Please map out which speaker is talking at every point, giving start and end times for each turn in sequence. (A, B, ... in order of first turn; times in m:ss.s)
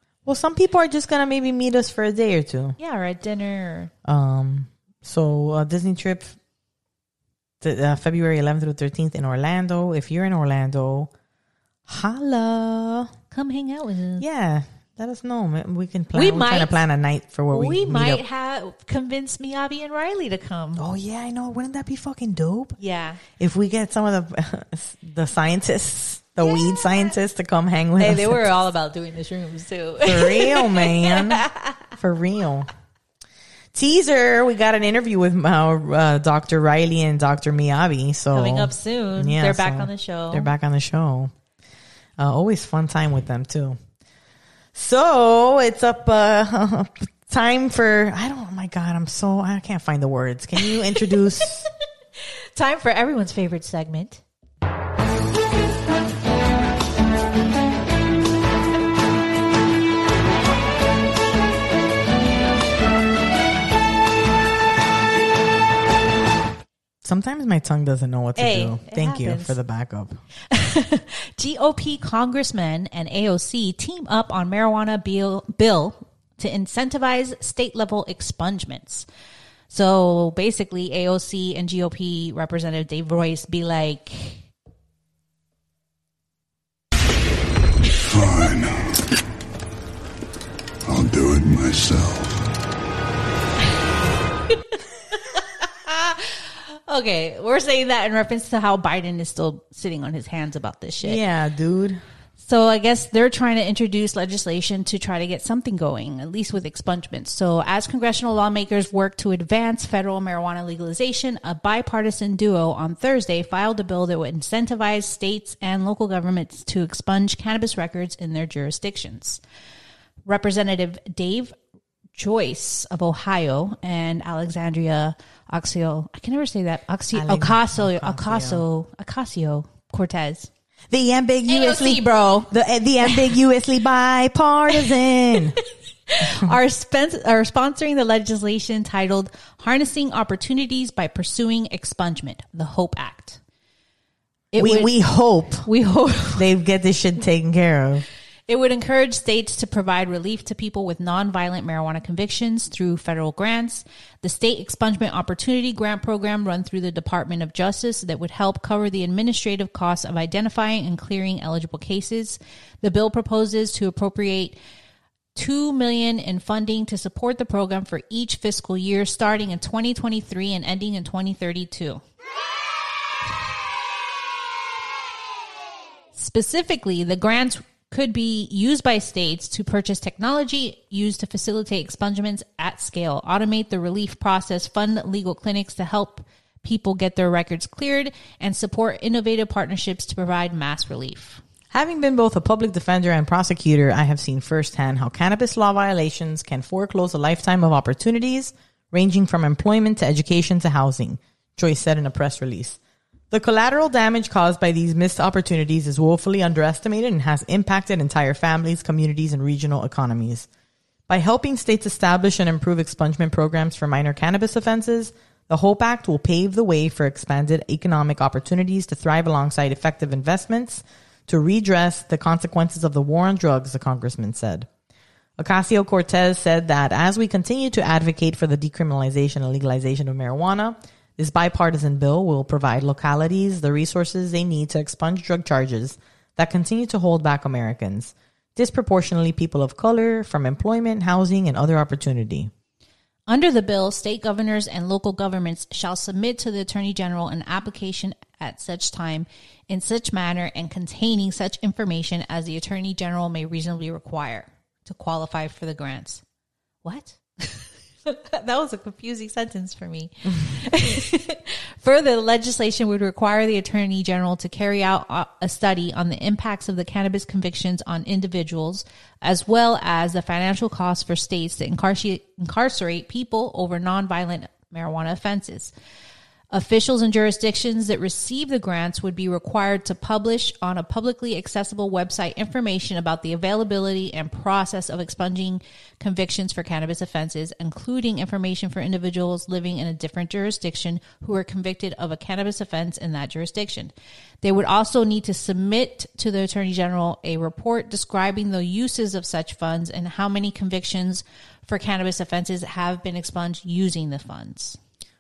0:00.2-0:02.8 A
0:02.8-0:03.9 B
0:04.0-0:06.4 A
0:07.6-0:11.1 A
0:11.9-0:13.1 A
0:13.3-0:14.2 B
0:14.2-0:18.2 A
0:16.1-0:16.8 B
0:17.5-0:20.8 B
0:20.8-0:22.8 A
0:22.8-0:23.2 B
0:23.4-0:28.7 A
0:26.4-0:27.2 B
0:28.0-0:31.9 B
0:30.0-0:31.4 A
0:32.0-0:32.7 A
0:33.7-0:41.3 A
0:38.3-0:40.5 B
0:42.2-0:43.8 A
0:44.7-0:51.7 A
0:50.7-0:51.5 B
0:52.6-0:54.2 B
1:07.0-1:10.2 A
1:08.4-1:09.6 B
1:10.5-1:19.1 B
1:19.7-1:24.5 B
1:28.0-1:29.0 C
1:30.9-1:32.4 C
1:35.1-1:41.2 B
1:41.0-1:42.0 A
1:42.4-1:59.4 B
2:00.2-2:01.6 B
2:02.2-2:10.5 B
2:07.1-2:08.6 A
2:10.9-2:15.6 A
2:11.5-2:13.4 B
2:14.7-2:23.4 B
2:16.2-2:16.5 A
2:24.5-2:24.9 B
2:24.6-2:25.7 A
2:25.6-2:26.5 B
2:26.4-2:28.1 A
2:28.5-2:44.6 B
2:45.4-2:52.0 B
2:56.2-3:11.4 B
3:11.7-3:22.8 A
3:23.3-3:30.5 A
3:31.1-3:44.7 A
3:45.4-4:02.5 A
4:03.3-4:16.2 B
4:16.8-4:35.7 B
4:36.5-5:04.8 B